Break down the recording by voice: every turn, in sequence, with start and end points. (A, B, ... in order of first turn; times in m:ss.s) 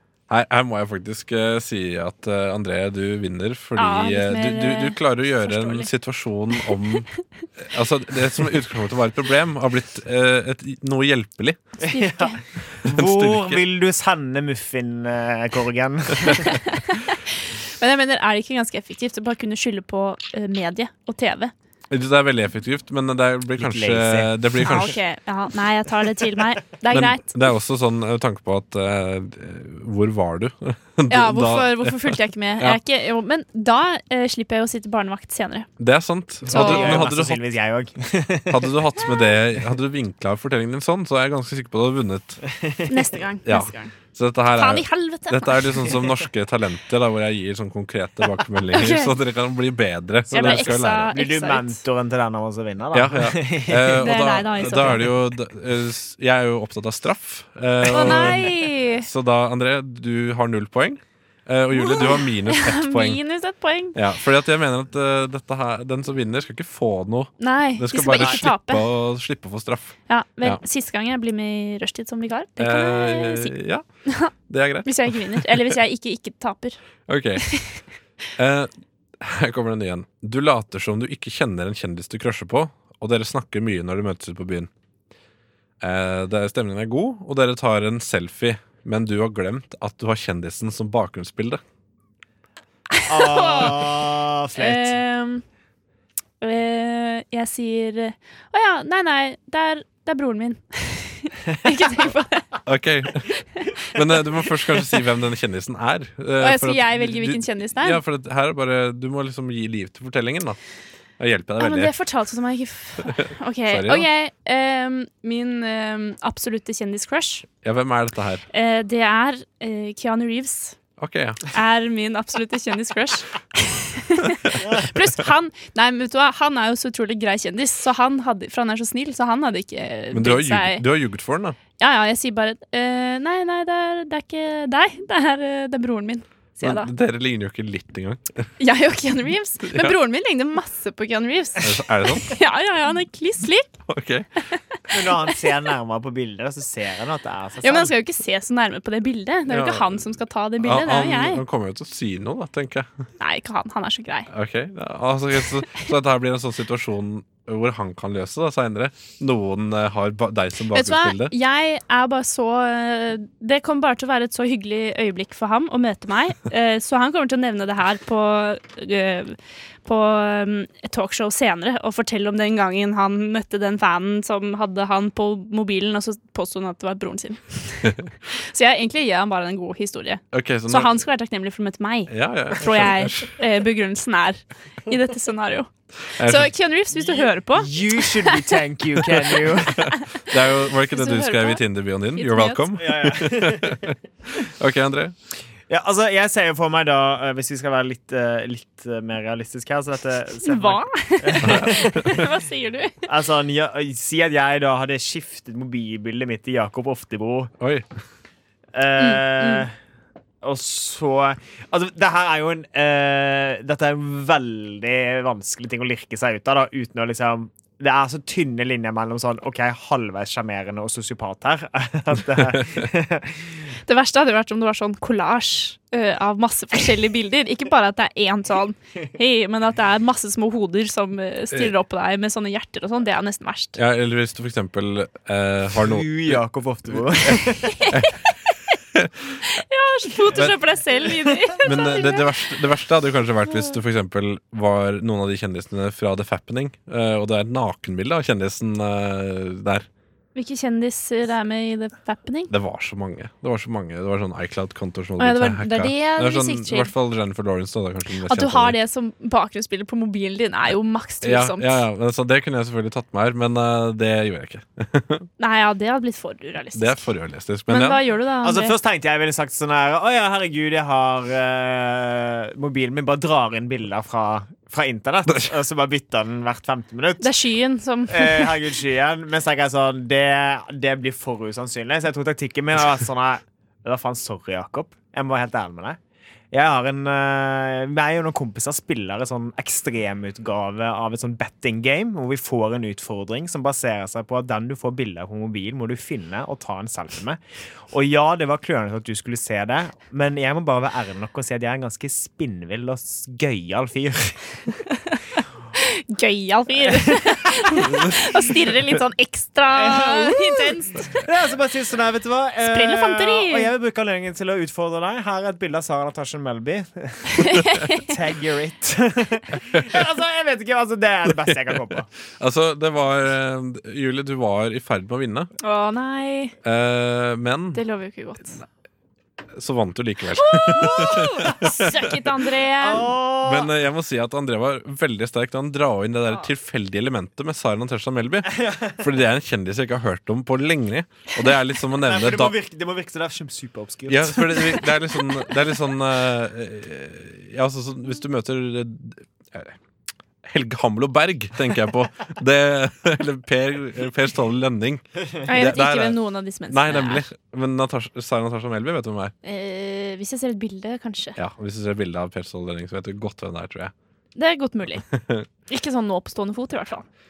0:00.3-0:11.7 A
0:03.8-0:05.9 B
0:11.8-0:12.4 B
0:11.8-0:16.6 C
0:12.8-0:13.6 A
0:16.3-0:21.5 B
0:21.9-0:25.0 A
0:23.6-0:24.9 C
0:24.6-0:27.4 B
0:26.9-0:32.8 A
0:31.1-0:35.7 B
0:35.8-0:37.4 A
0:36.5-0:38.8 C
0:36.5-0:37.0 B
0:38.5-0:42.4 A
0:42.9-0:43.9 B
0:43.5-0:51.1 A
0:44.6-0:46.0 B
0:48.7-0:49.1 B
0:50.3-0:51.8 B
0:50.3-0:54.1 C
0:52.9-1:03.2 A
0:54.0-0:55.1 B
0:57.9-0:59.1 B
1:01.7-1:04.0 B
1:04.0-1:10.6 A
1:07.4-1:08.8 B
1:10.1-1:14.3 B
1:12.6-1:15.7 A
1:14.8-1:16.8 B
1:17.1-1:17.4 A
1:17.4-1:17.8 B
1:18.4-1:24.7 A
1:25.8-1:31.6 A
1:33.0-1:35.4 B
1:33.1-1:35.0 C
1:36.4-1:42.5 B
1:42.7-1:50.6 A
1:43.4-1:43.8 B
1:46.4-1:48.0 B
1:51.2-1:51.9 A
1:51.6-1:57.5 B
1:53.0-1:54.1 A
1:57.6-1:58.4 A
1:58.5-2:00.8 B
2:01.0-2:01.4 A
2:01.5-2:10.8 B
2:10.1-2:11.6 A
2:11.8-2:16.9 B
2:16.6-2:18.5 A
2:18.6-2:23.8 B
2:19.6-2:20.0 A
2:21.6-2:22.4 A
2:23.9-2:24.3 A
2:24.5-2:25.3 B
2:24.9-2:27.9 C
2:27.6-2:31.4 B
2:29.5-2:30.1 A
2:30.6-2:32.9 A
2:33.2-2:34.3 B
2:34.3-2:41.3 A
2:40.7-3:08.6 B
3:00.3-3:01.0 A
3:02.1-3:03.4 A
3:06.2-3:06.5 A
3:07.0-3:09.9 C
3:09.7-3:15.2 A
3:09.8-3:10.2 B
3:10.9-3:11.6 B
3:12.2-3:12.7 B
3:12.8-3:13.8 C
3:15.7-3:22.2 C
3:20.4-3:23.0 B
3:21.4-3:22.3 A
3:23.0-3:27.5 C
3:27.6-3:27.9 A
3:28.7-3:29.7 C
3:29.0-3:29.7 B
3:30.4-3:43.6 C
3:43.9-3:53.8 B
3:53.8-3:56.4 A
3:55.8-3:57.8 C
3:56.9-3:58.2 A
3:57.7-3:58.1 B
3:58.9-3:59.4 A
3:59.4-4:02.2 B
4:01.6-4:09.9 A
4:10.4-4:12.5 B
4:12.5-4:18.8 A
4:15.2-4:16.9 B
4:18.2-4:21.8 B
4:21.2-4:25.3 A
4:25.4-4:27.0 B
4:26.8-4:28.0 A
4:27.7-4:28.8 B
4:28.4-4:37.3 C
4:37.2-4:38.6 B
4:38.1-4:46.0 C
4:46.5-4:57.4 C
4:57.9-5:04.6 C
5:05.8-5:11.2 B
5:09.7-5:22.1 C
5:12.6-5:13.7 B
5:17.4-5:18.1 B
5:22.4-5:25.5 A
5:25.6-5:26.6 B
5:26.6-5:27.8 A
5:27.7-5:28.6 B
5:29.6-5:32.1 A
5:30.4-5:33.1 B
5:30.7-5:31.6 C
5:32.8-5:33.7 C
5:33.4-5:42.5 A
5:38.5-5:39.0 C
5:42.0-5:44.8 C
5:44.1-5:49.8 A
5:50.4-5:59.3 A
5:55.5-5:57.3 B
5:59.4-6:01.4 B
6:01.4-6:03.9 A
6:04.4-6:05.1 B
6:05.1-6:05.5 A
6:05.7-6:07.1 B